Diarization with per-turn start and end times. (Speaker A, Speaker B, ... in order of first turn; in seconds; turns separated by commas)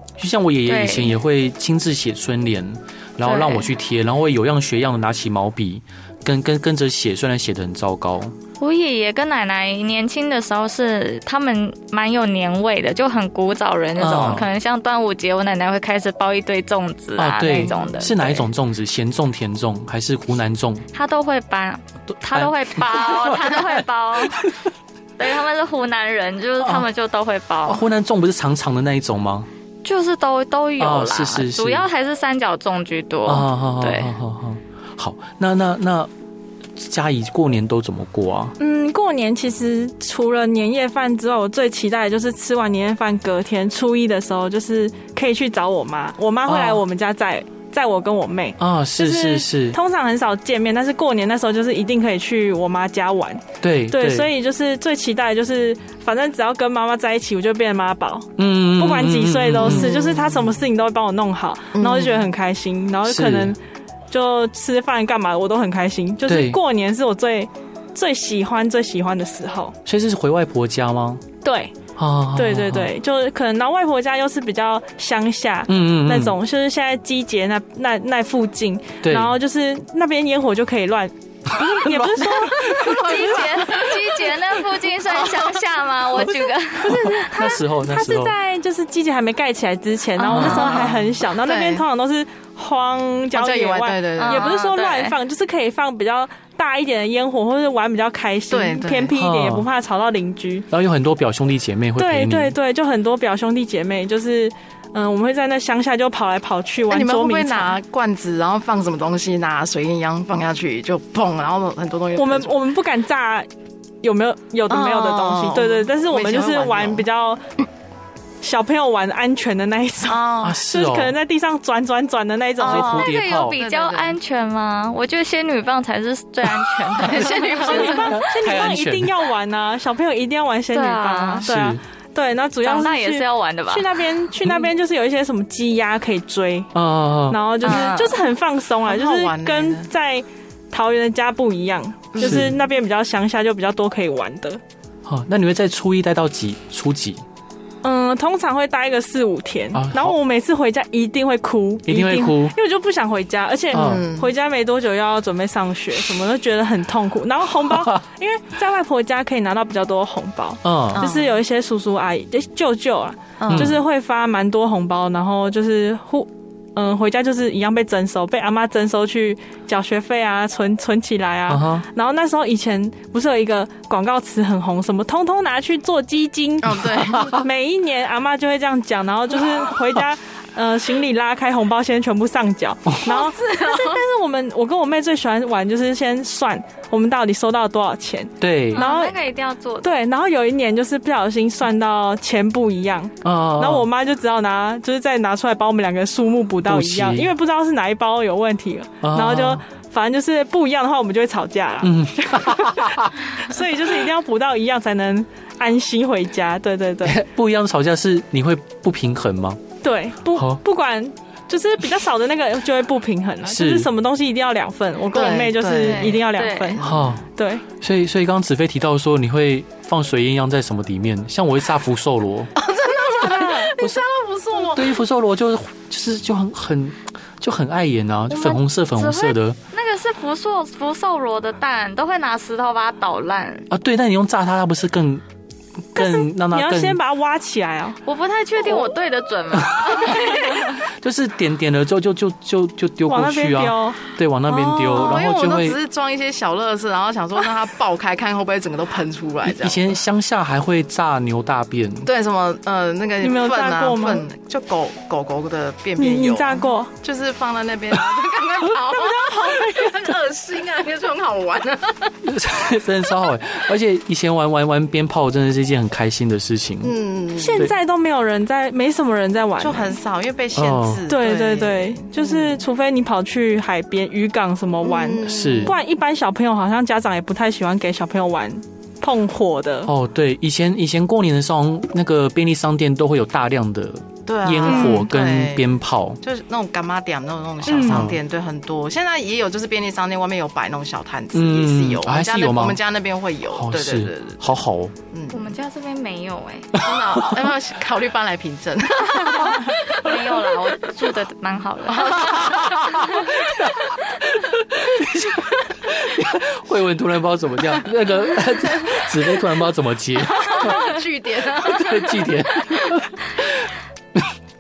Speaker A: 0.2-8.3, Speaker B: 0.7-1.1, Speaker B: 3.2-3.7, Speaker B: 8.6-18.4, Speaker A: 14.0-14.5, Speaker A: 17.2-20.8, Speaker B: 20.9-24.5, Speaker A: 22.1-24.6, Speaker B: 25.2-27.8, Speaker A: 26.6-26.9, Speaker A: 27.6-29.5, Speaker B: 29.8-34.1, Speaker A: 30.8-31.8, Speaker A: 33.2-36.1, Speaker A: 36.8-38.5, Speaker C: 38.6-63.6, Speaker A: 46.5-46.8, Speaker A: 48.6-49.8, Speaker A: 53.6-54.3, Speaker A: 58.4-59.9, Speaker D: 59.6-60.5, Speaker D: 61.7-62.3, Speaker A: 63.0-63.5, Speaker C: 64.1-69.8, Speaker A: 66.2-66.6, Speaker A: 69.8-71.2, Speaker C: 71.4-71.7, Speaker A: 72.0-72.9, Speaker C: 72.3-83.4, Speaker A: 75.7-76.3, Speaker A: 79.0-79.3, Speaker A: 81.5-83.1, Speaker B: 82.7-87.2, Speaker D: 82.8-84.0, Speaker D: 85.2-85.5, Speaker C: 86.8-100.7, Speaker A: 86.8-88.3, Speaker B: 90.2-90.9, Speaker A: 90.3-90.7, Speaker D: 90.3-91.8, Speaker D: 93.3-94.5, Speaker B: 94.2-95.2, Speaker D: 98.5-99.2, Speaker A: 99.1-99.7, Speaker A: 100.7-102.5, Speaker C: 102.0-107.7, Speaker D: 106.9-112.5, Speaker C: 112.2-113.5, Speaker C: 114.0-117.4, Speaker D: 114.7-117.0, Speaker C: 118.4-123.0, Speaker D: 120.0-120.6, Speaker A: 120.4-121.1, Speaker D: 122.6-124.2, Speaker A: 122.6-123.5, Speaker B: 122.8-128.0, Speaker D: 127.0-128.2, Speaker C: 127.5-136.7, Speaker A: 128.0-129.1, Speaker B: 130.7-131.4, Speaker A: 131.4-131.8, Speaker B: 132.6-133.9, Speaker A: 136.7-137.4, Speaker C: 137.3-144.6, Speaker B: 137.6-138.2, Speaker D: 138.8-139.9, Speaker D: 142.1-142.5, Speaker A: 142.2-142.5, Speaker A: 145.1-147.2, Speaker C: 147.8-189.2, Speaker A: 149.7-150.2, Speaker A: 151.9-152.5, Speaker A: 153.7-154.0, Speaker D: 153.7-154.3, Speaker A: 157.7-158.0, Speaker A: 160.6-161.1, Speaker D: 160.9-161.4, Speaker D: 163.4-163.8, Speaker A: 163.5-163.8, Speaker A: 171.5-171.8, Speaker D: 176.6-177.4, Speaker D: 183.0-184.0, Speaker A: 188.4-188.8, Speaker B: 188.7-189.9, Speaker C: 189.8-207.2, Speaker A: 193.2-193.9, Speaker A: 196.6-197.3, Speaker A: 199.0-199.6, Speaker A: 201.8-203.1, Speaker A: 207.0-209.6, Speaker C: 209.8-217.6, Speaker A: 210.3-210.6, Speaker A: 213.4-213.9, Speaker D: 215.1-217.1, Speaker B: 216.2-216.8, Speaker A: 216.8-217.2, Speaker A: 217.8-222.5, Speaker D: 222.5-225.0, Speaker C: 223.2-223.7, Speaker A: 223.7-224.0, Speaker A: 224.7-229.6, Speaker B: 228.3-233.7, Speaker A: 233.7-235.2, Speaker A: 235.9-237.0, Speaker C: 236.0-238.0, Speaker B: 238.1-240.8, Speaker A: 239.6-240.3, Speaker A: 240.9-245.8, Speaker C: 243.1-244.9, Speaker D: 244.8-249.9, Speaker A: 249.4-252.1, Speaker D: 252.0-262.2, Speaker C: 253.2-254.2, Speaker C: 256.0-256.9, Speaker C: 258.9-260.0, Speaker A: 262.2-266.9, Speaker D: 266.8-267.7, Speaker C: 267.4-270.0, Speaker D: 269.6-272.6, Speaker A: 270.5-271.0, Speaker C: 271.1-279.9, Speaker D: 274.8-275.8, Speaker A: 275.2-275.8, Speaker A: 279.9-286.2, Speaker D: 284.2-294.4, Speaker C: 284.7-285.0, Speaker C: 287.6-288.1, Speaker A: 287.8-288.2, Speaker A: 291.3-292.8, Speaker A: 293.5-294.9, Speaker D: 295.1-295.6, Speaker B: 295.3-296.8, Speaker A: 296.8-297.3, Speaker D: 296.8-300.1, Speaker B: 299.7-303.3, Speaker D: 301.9-302.6, Speaker A: 302.3-310.9, Speaker D: 310.3-312.4, Speaker A: 311.6-314.2